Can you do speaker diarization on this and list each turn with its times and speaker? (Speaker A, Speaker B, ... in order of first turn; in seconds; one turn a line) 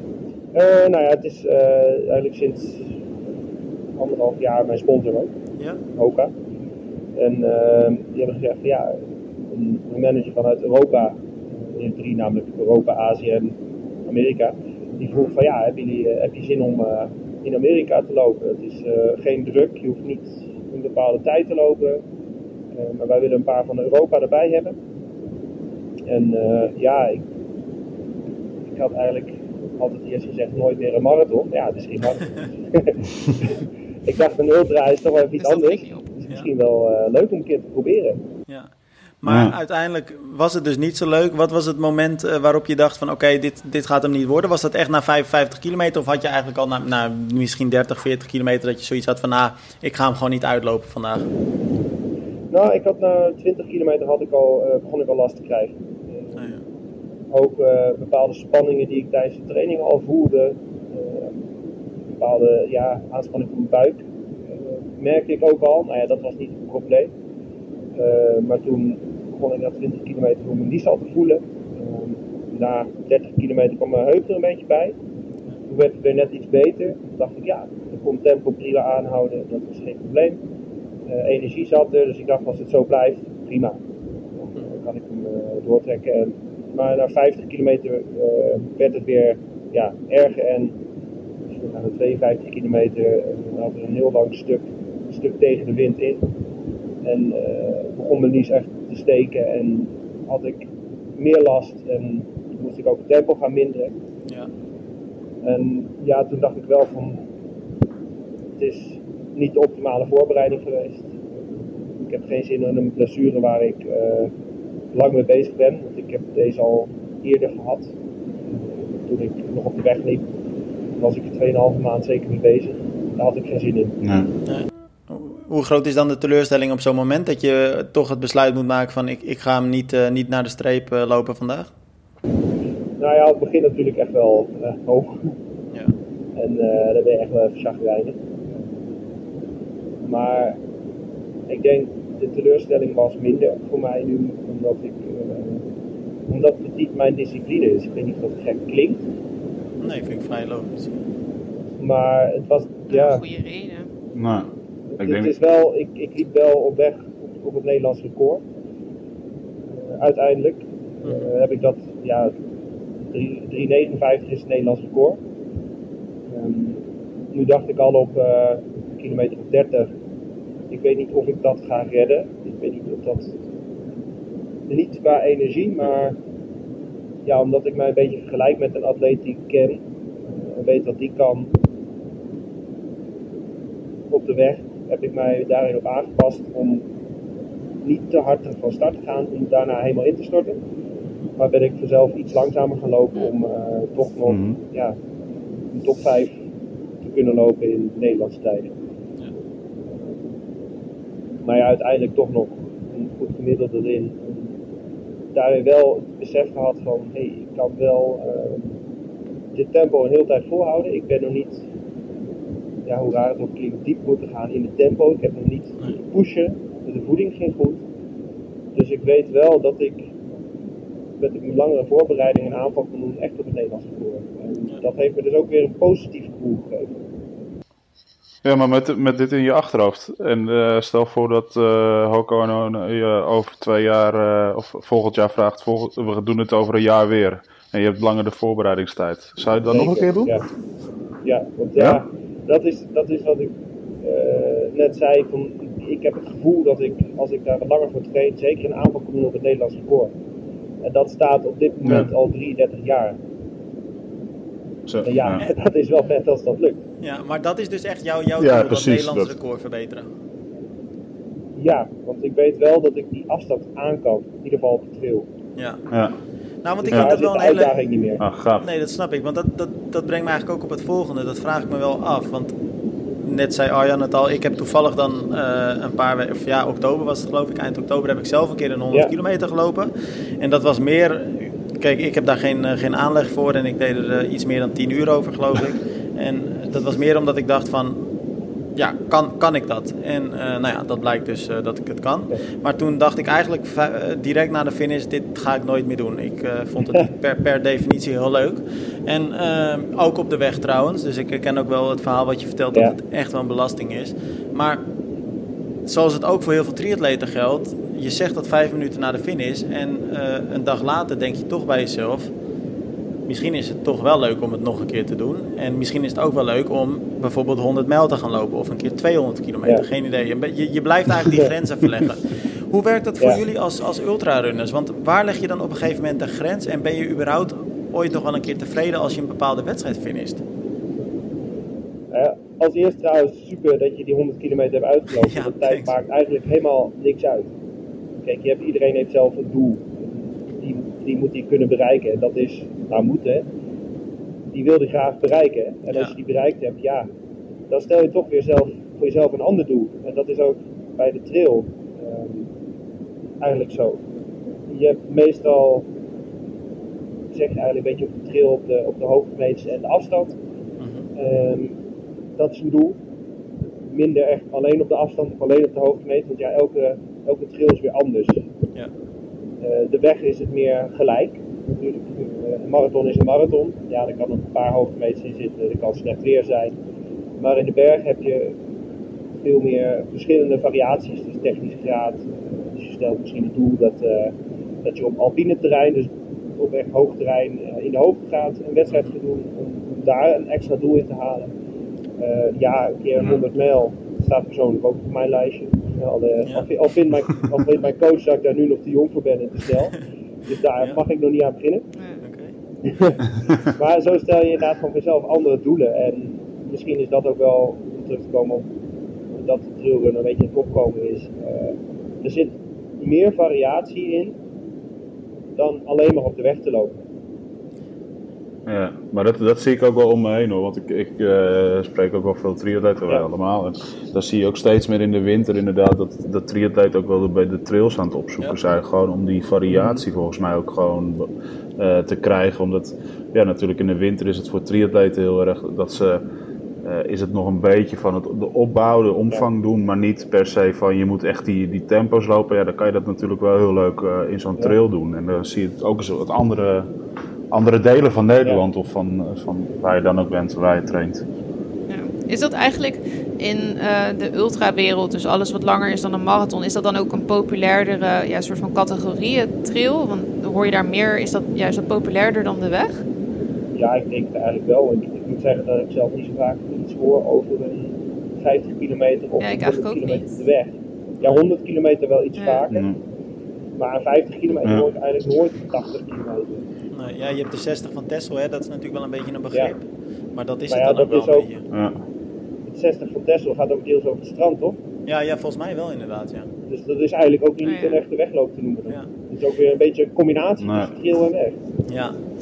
Speaker A: 0.5-3.0
Speaker A: 4.0-5.3
Speaker A: 6.0-6.3
Speaker A: 7.2-22.0
Speaker A: 22.7-24.8
Speaker A: 26.1-27.3
Speaker A: 28.6-38.2
Speaker B: 35.4-36.1
Speaker C: 38.5-51.3
Speaker D: 39.2-39.5
Speaker A: 52.5-56.5
Speaker A: 57.3-61.4
Speaker A: 62.1-67.1
Speaker A: 67.9-75.0
Speaker A: 75.7-80.4
Speaker A: 81.1-83.8
Speaker A: 84.4-90.8
Speaker A: 91.5-96.3
Speaker A: 97.0-103.9
Speaker A: 105.4-107.2
Speaker A: 108.6-111.2
Speaker A: 112.0-114.3
Speaker A: 114.9-117.9
Speaker A: 118.6-120.3
Speaker A: 121.0-124.0
Speaker D: 124.0-124.3
Speaker C: 124.5-131.7
Speaker A: 133.0-135.3
Speaker A: 136.3-138.2
Speaker A: 140.0-140.6
Speaker A: 141.5-145.6
Speaker A: 146.3-149.0
Speaker C: 149.8-151.0
Speaker A: 151.8-153.2
Speaker B: 152.9-153.9
Speaker D: 154.1-155.3
Speaker A: 154.9-158.4
Speaker A: 159.8-162.3
Speaker C: 161.0-161.3
Speaker A: 163.1-165.2
Speaker A: 166.3-169.9
Speaker A: 170.7-173.4
Speaker A: 174.7-176.2
Speaker A: 177.2-179.8
Speaker A: 180.3-181.5
Speaker A: 184.1-186.8
Speaker A: 187.8-190.6
Speaker A: 191.4-195.0
Speaker D: 194.3-194.6
Speaker A: 195.7-196.4
Speaker A: 197.0-198.7
Speaker A: 201.4-204.6
Speaker A: 205.3-208.8
Speaker A: 209.5-211.7
Speaker A: 212.8-217.8
Speaker A: 218.7-220.1
Speaker A: 221.2-226.9
Speaker D: 228.4-240.4
Speaker A: 239.7-240.4
Speaker A: 241.2-250.1
Speaker A: 250.8-253.2
Speaker D: 254.8-255.4
Speaker A: 255.0-256.8
Speaker C: 257.0-260.1
Speaker D: 258.4-259.3
Speaker A: 261.6-265.3
Speaker C: 265.6-265.8
Speaker D: 265.9-266.1
Speaker C: 266.6-267.7
Speaker A: 266.8-268.2
Speaker D: 268.2-268.6
Speaker C: 268.6-272.5
Speaker C: 273.2-288.1
Speaker C: 288.8-304.9
Speaker C: 305.9-312.3
Speaker C: 313.3-330.4
Speaker A: 332.1-337.5
Speaker C: 335.1-335.9
Speaker A: 338.2-343.5
Speaker A: 344.5-347.1
Speaker A: 347.7-352.5
Speaker A: 353.4-354.0
Speaker A: 354.7-355.9
Speaker A: 357.3-360.4
Speaker C: 360.8-361.1
Speaker A: 361.1-361.8
Speaker A: 362.4-363.0
Speaker A: 363.9-368.4
Speaker A: 369.6-376.8
Speaker A: 377.4-378.6
Speaker A: 379.4-391.5
Speaker A: 392.2-401.9
Speaker B: 401.9-402.2
Speaker C: 402.2-402.5
Speaker A: 402.8-408.7
Speaker A: 409.3-414.4
Speaker A: 415.6-417.0
Speaker D: 418.6-436.2
Speaker A: 429.7-430.0
Speaker D: 436.8-446.9
Speaker D: 447.5-451.2
Speaker B: 451.9-463.0
Speaker A: 463.7-472.9
Speaker B: 469.4-470.3
Speaker B: 472.4-472.6
Speaker D: 472.7-473.0
Speaker A: 473.8-476.6
Speaker C: 476.9-481.6
Speaker A: 480.7-481.5
Speaker D: 481.7-482.0
Speaker A: 482.6-484.8
Speaker C: 485.1-486.5
Speaker A: 486.7-491.6
Speaker B: 487.6-488.0
Speaker D: 490.6-490.9
Speaker C: 491.9-492.2